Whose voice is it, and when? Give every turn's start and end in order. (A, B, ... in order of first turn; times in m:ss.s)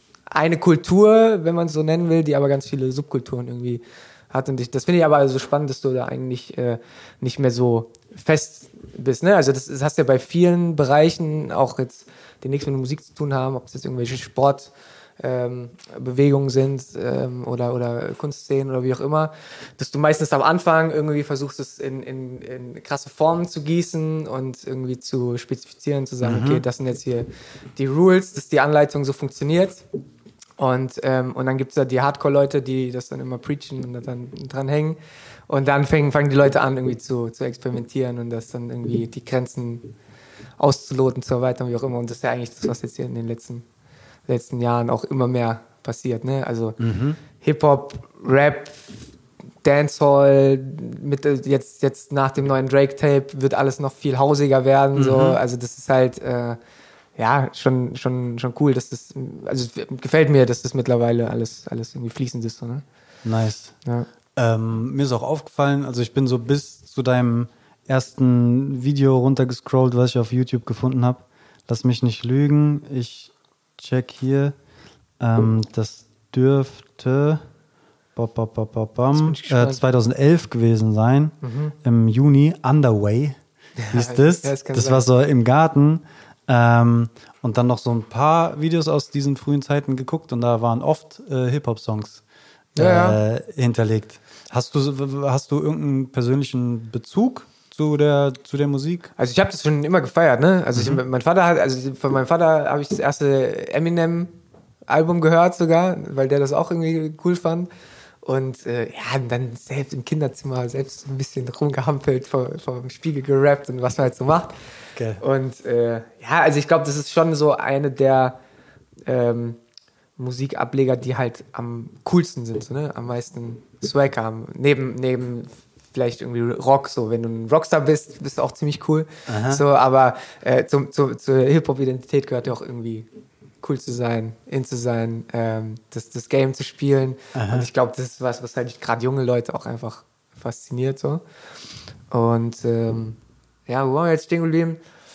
0:00.3-0:29.8 A
0:26.2-0:26.6 B
0:30.6-0:35.0 A
0:35.5-0:39.9 A
0:40.6-0:43.6 A
0:44.3-0:46.8 A
0:46.8-0:47.2 B
0:47.3-0:49.0 A
0:49.6-0:56.6 A
0:55.0-0:55.4 B
0:57.2-1:02.8 A
1:03.2-1:03.7 B
1:04.4-1:14.5 B
1:15.2-1:17.4 B
1:18.2-1:23.4 B
1:19.2-1:19.8 A
1:21.4-1:21.7 A
1:23.8-1:25.0 A
1:23.9-1:32.2 B
1:32.8-1:39.1 B
1:32.8-1:33.2 A
1:39.2-1:44.3 A
1:40.8-1:41.0 B
1:44.9-1:47.7 A
1:48.2-1:54.5 A
1:55.0-1:55.2 B
1:55.2-1:58.4 A
1:59.1-1:59.6 A
2:00.2-2:13.1 A
2:09.3-2:09.6 B
2:13.6-2:21.2 A
2:17.3-2:17.7 B
2:22.1-2:24.8 A